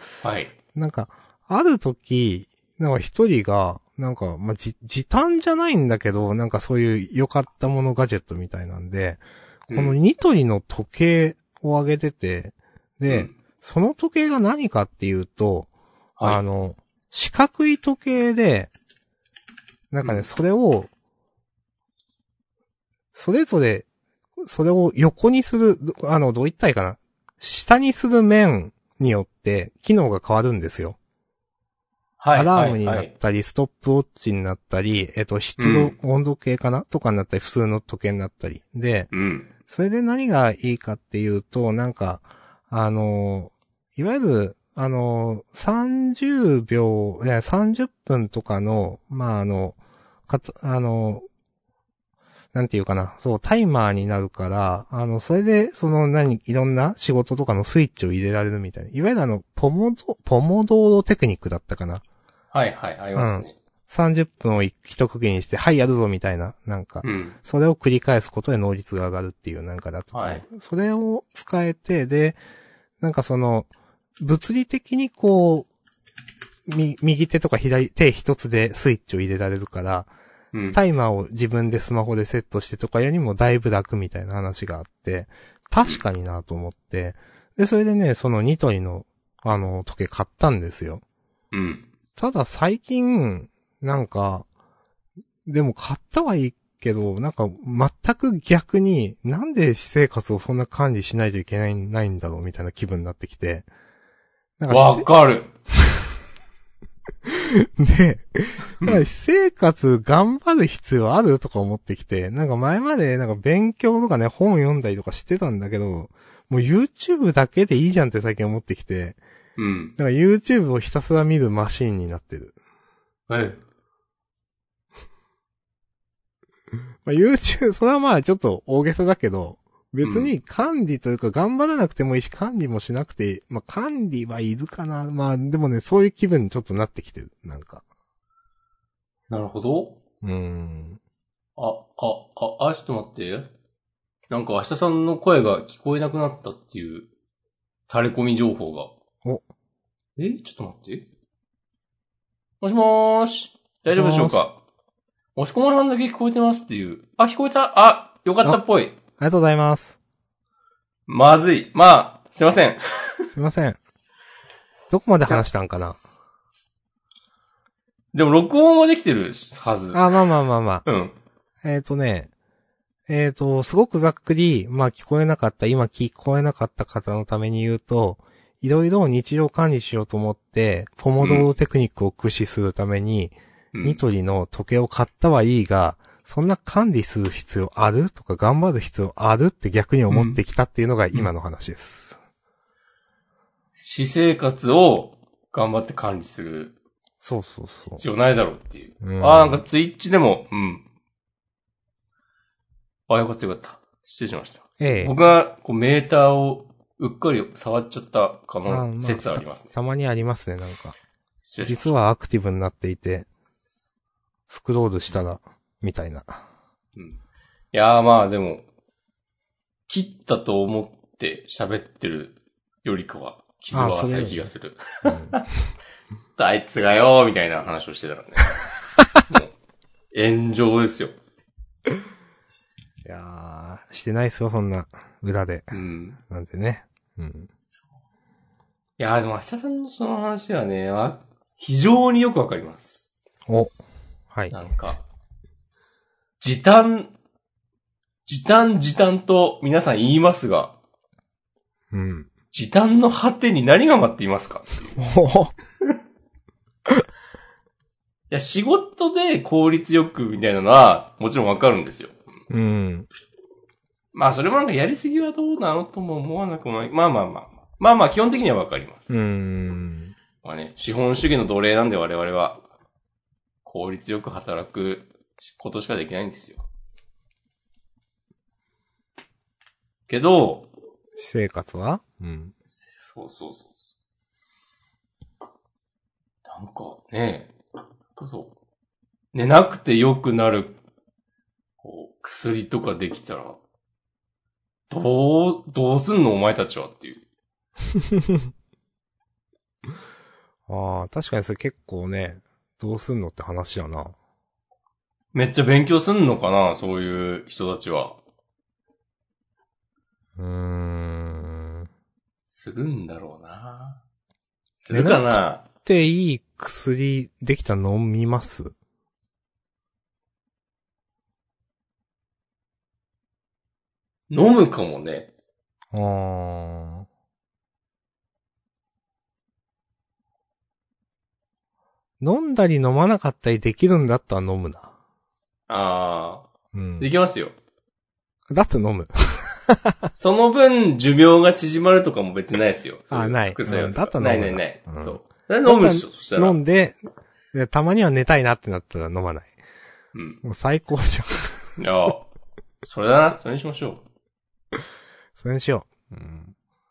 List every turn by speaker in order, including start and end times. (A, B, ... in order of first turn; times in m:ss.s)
0:00.2-0:00.5 A
0:00.7-0:15.7 B
0:09.7-0:10.0 A
0:13.1-0:13.3 A
0:16.2-0:18.7 B
0:19.9-0:20.9 B
0:20.0-0:20.3 A
0:23.1-0:23.9 B
0:24.4-0:31.0 B
0:32.2-0:33.1 A
0:32.3-0:39.1 B
0:35.6-0:35.9 A
0:39.1-0:39.5 A
0:39.7-0:49.8 B
0:50.3-0:51.2 B
0:52.5-1:02.0 B
1:02.5-1:03.5 A
1:03.2-1:12.4 B
1:07.0-1:07.4 A
1:10.1-1:10.4 A
1:13.0-1:13.7 B
1:14.2-1:15.7 B
1:16.7-1:20.1 B
1:20.5-1:20.8 A
1:20.7-1:31.0 B
1:31.5-1:31.9 A
1:32.2-1:34.5 B
1:35.4-1:43.7 B
1:44.6-1:45.1 B
1:44.7-1:45.5 A
1:47.2-1:59.2 B
1:59.6-1:59.9 A
2:00.0-2:02.5 B
2:03.3-2:03.6 A
2:07.0-2:17.8 B
2:10.0-2:10.3 A
2:19.3-2:20.0 A
2:20.2-2:21.0 B
2:21.6-2:23.5 A
2:24.3-2:27.1 A
2:27.9-2:28.9 A
2:30.2-2:31.1 A
2:32.6-2:34.6 A
2:33.9-2:34.4 B
2:35.4-2:38.9 A
2:39.2-2:40.0 B
2:41.1-2:43.2 A
2:43.3-2:43.8 B
2:44.9-2:46.0 B
2:48.1-2:50.1 A
2:49.9-2:50.8 B
2:50.8-2:51.1 A
2:51.6-2:52.3 B
2:53.1-3:12.2 B
3:01.2-3:01.5 A
3:03.7-3:04.0 A
3:10.1-3:10.4 A
3:13.8-3:16.7 A
3:17.2-3:18.0 B
3:18.0-3:20.8 A
3:19.0-3:19.6 B
3:23.1-3:29.7 A
3:24.8-3:25.1 B
3:28.7-3:31.0 B
3:31.4-3:31.9 A
3:31.6-3:33.3 B
3:34.5-3:36.4 B
3:37.7-3:38.6 A
3:39.9-3:45.4 A
3:43.7-3:44.5 B
3:45.0-3:45.4 B
3:46.4-3:48.5 A
3:49.3-3:49.5 A
3:50.1-3:51.1 A
3:53.0-3:55.7 B
3:55.7-3:56.2 A
3:56.3-3:57.5 B
3:59.0-4:03.1 A
4:03.5-4:03.8 B
4:04.5-4:05.0 A
4:06.4-4:07.1 A
4:08.2-4:10.8 A
4:11.9-4:12.3 B
4:12.5-4:15.0 A
4:15.0-4:15.5 B
4:18.3-4:22.2 A
4:22.5-4:23.1 B
4:24.1-4:29.1 A
4:29.1-4:30.1 B
4:30.4-4:32.6 A
4:33.6-4:36.6 A
4:40.1-4:40.7 A
4:41.2-4:42.5 B
4:42.8-4:43.9 A
4:46.4-4:47.5 A
4:48.2-4:48.5 A
4:49.3-4:50.8 A
4:51.8-4:53.6 A
4:54.9-4:57.2 A
5:00.7-5:04.1 B
5:05.3-5:08.2 A
5:10.4-5:11.9 B
5:12.5-5:14.0 A
5:14.8-5:15.6 A
5:14.9-5:18.7 B
5:24.3-5:25.3 A
5:25.9-5:27.1 B
5:32.2-5:34.9 B
5:35.7-5:36.4 A
5:36.7-5:37.1 B
5:37.0-5:37.5 A
5:38.5-5:40.0 B
5:40.1-5:46.6 A
5:43.1-5:47.0 B
5:47.5-5:49.5 B
5:50.1-5:50.4 A
5:50.4-5:51.8 B
5:51.8-5:52.3 A
5:52.8-5:54.0 A
5:55.4-5:56.5 B